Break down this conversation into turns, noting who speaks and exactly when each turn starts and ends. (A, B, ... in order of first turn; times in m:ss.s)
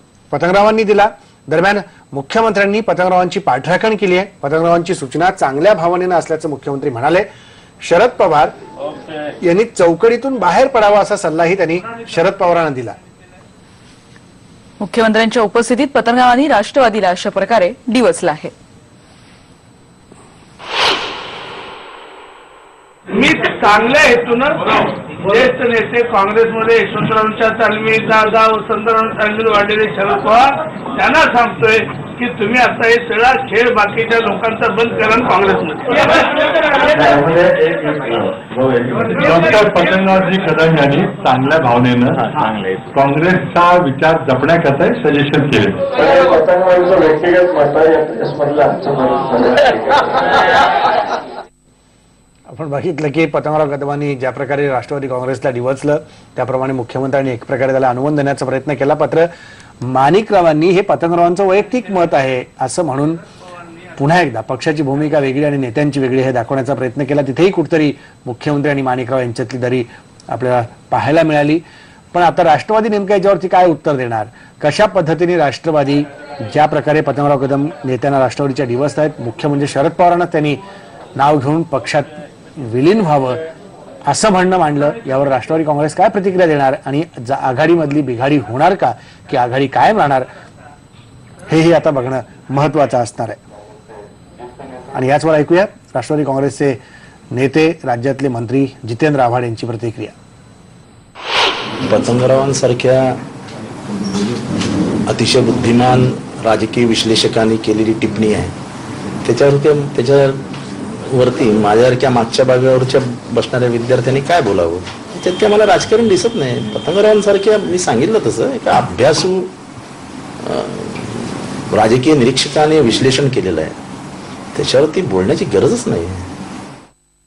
0:00.3-0:07.3 A
0:07.8-0:08.5 A
0:09.4-0:13.0 A
0:14.8-0:18.5 B
0:23.1-0:36.4 C
0:36.9-0:39.2 D
0:39.1-0:45.8 E
0:45.9-0:50.3 D
0:52.5-0:59.3 A
0:59.8-1:03.2 A
1:04.0-1:11.6 A
1:12.1-1:20.6 A
1:21.2-1:23.4 A
1:24.1-1:30.3 A
1:31.5-1:33.4 A
1:34.9-1:36.8 A
1:37.3-1:40.2 A
1:41.8-1:43.2 F
1:45.1-1:48.6 F
1:49.2-1:50.4 F
1:51.1-1:59.5 F
2:00.4-2:03.8 F
2:04.5-2:06.3 F